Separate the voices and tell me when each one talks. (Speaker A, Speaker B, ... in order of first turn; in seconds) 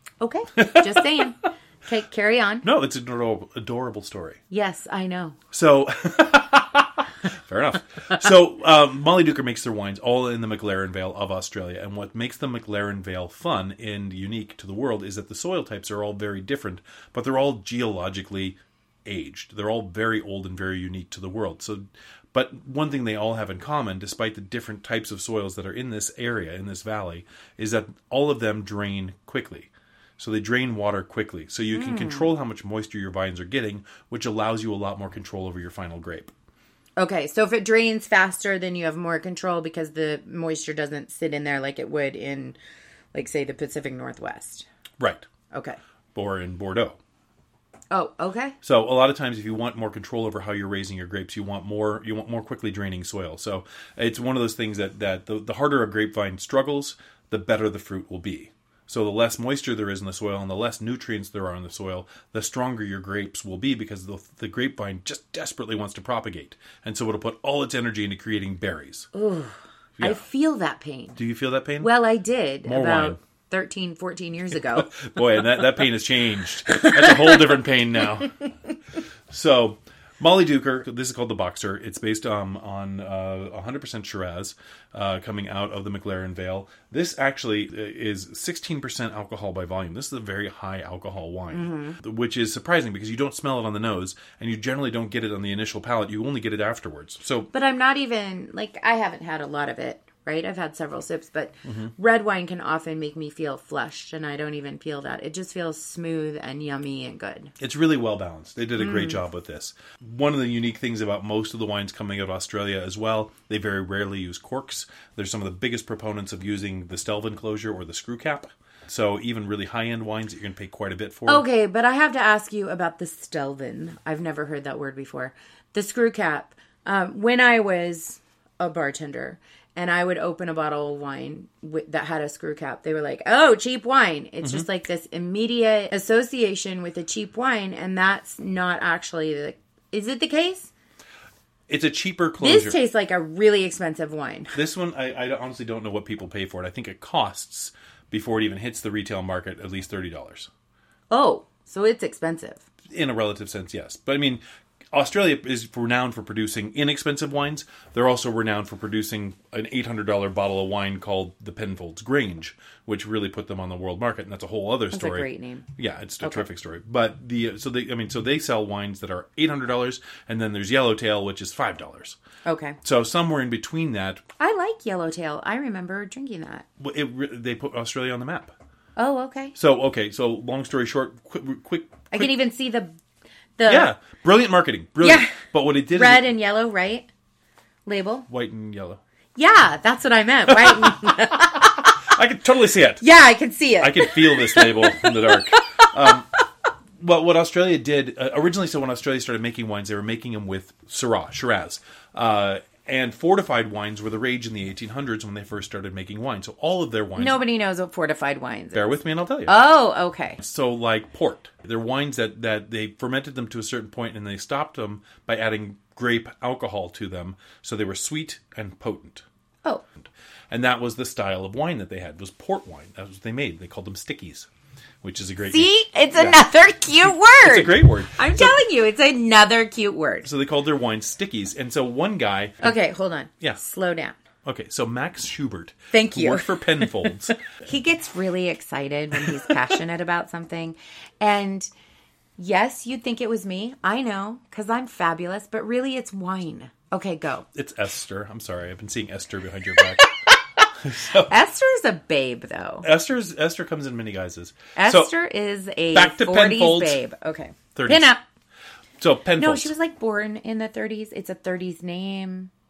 Speaker A: 0.2-2.6, 4.5-5.4, 31.7-32.3, 37.0-42.6, 43.1-44.7, 45.5-45.8, 47.9-48.6, 69.1-71.2, 71.8-75.0, 76.7-77.5, 91.5-92.0, 97.5-107.5, 108.8-109.2, 121.3-140.7, 142.4-144.6, 151.1-152.6, 164.9-165.7, 172.4-172.8, 174.4-176.7, 178.9-179.6, 182.1-183.0, 183.6-183.9, 185.0-185.4, 185.9-187.1, 187.9-188.3, 189.4-192.1, 193.0-196.1, 207.2-208.9, 209.5-210.4, 225.4-230.3, 232.6-234.2, 235.9-241.7, 242.4-247.5, 251.2-252.9, 254.8-258.2, 259.4-262.5
Speaker B: 0.6-1.3, 2.6-4.4, 5.5-36.3, 45.0-45.3, 46.1-47.0, 48.6-69.1, 70.0-70.2, 71.2-71.9, 72.6-73.2, 74.6-78.4, 79.3-97.5, 101.7-101.9, 107.6-121.4, 141.7-142.8, 144.5-150.5, 152.9-154.4, 154.9-172.2, 172.8-174.2, 176.8-178.5, 179.6-182.3, 183.7-186.3, 188.3-189.0, 190.5-193.0, 193.8-196.3, 197.0-207.4, 208.7-209.6, 210.4-219.2, 220.0-224.5, 225.0-228.6, 230.2-232.8, 234.4-237.4, 239.2-239.5, 247.5-250.1, 250.7-251.3, 252.8-255.1, 255.9-257.0, 257.7-258.1, 259.0-259.7